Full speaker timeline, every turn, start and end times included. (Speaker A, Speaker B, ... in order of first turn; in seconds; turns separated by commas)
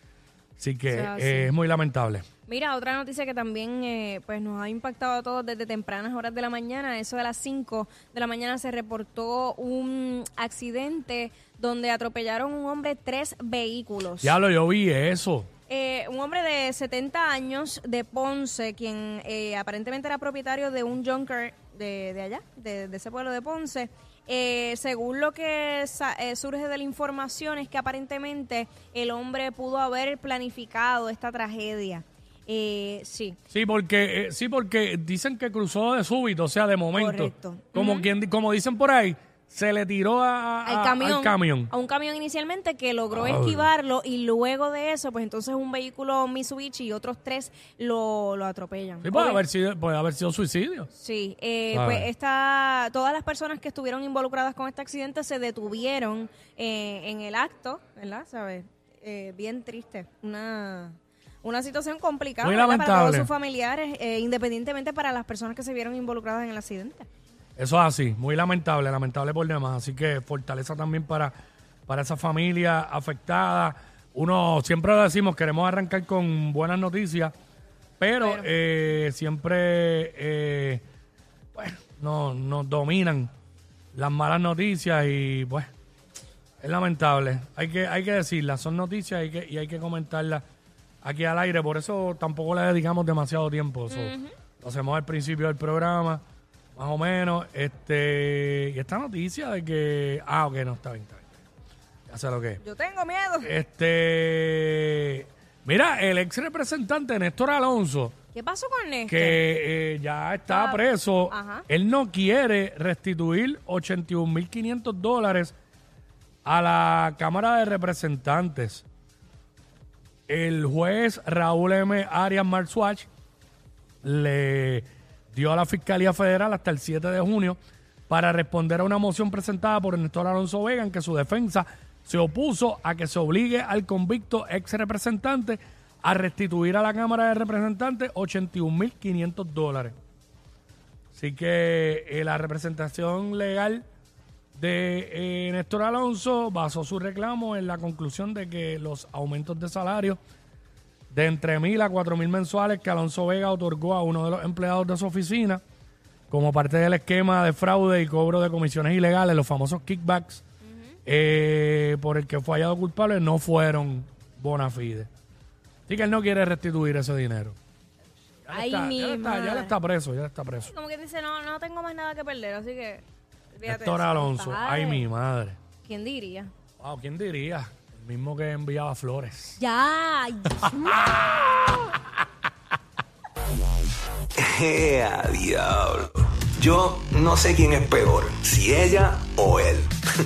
Speaker A: 0.6-2.2, Speaker B: 0.9-1.5, Speaker B: 2.5-14.4, Speaker A: 14.2-15.5, Speaker B: 15.7-33.4, Speaker A: 33.5-41.7, Speaker B: 36.9-38.1, Speaker B: 40.6-49.4, Speaker A: 43.1-43.7, Speaker A: 49.0-50.9, Speaker B: 50.9-67.1, Speaker A: 51.7-52.1, Speaker A: 62.4-63.3, Speaker A: 67.6-71.3, Speaker A: 71.9-77.3, Speaker A: 78.0-80.8, Speaker B: 78.2-78.5, Speaker A: 81.5-83.3, Speaker A: 83.9-85.7, Speaker A: 86.6-90.4, Speaker A: 91.0-96.2, Speaker B: 93.9-94.3, Speaker A: 96.8-101.3, Speaker A: 102.1-102.6, Speaker B: 102.6-103.5, Speaker A: 103.4-108.1, Speaker B: 108.3-109.4, Speaker A: 109.1-115.5, Speaker B: 110.5-111.6, Speaker A: 116.4-118.8, Speaker A: 120.3-123.1, Speaker A: 124.0-127.6, Speaker A: 128.1-139.9, Speaker A: 141.1-143.8, Speaker A: 144.6-150.2, Speaker A: 151.1-155.6, Speaker A: 156.3-160.4, Speaker A: 161.1-165.1, Speaker A: 165.9-167.6, Speaker A: 168.5-170.7, Speaker B: 168.5-169.7, Speaker B: 170.7-175.1, Speaker A: 173.7-175.6, Speaker B: 175.8-176.5, Speaker A: 176.8-179.6, Speaker B: 179.6-181.2, Speaker C: 184.4-190.0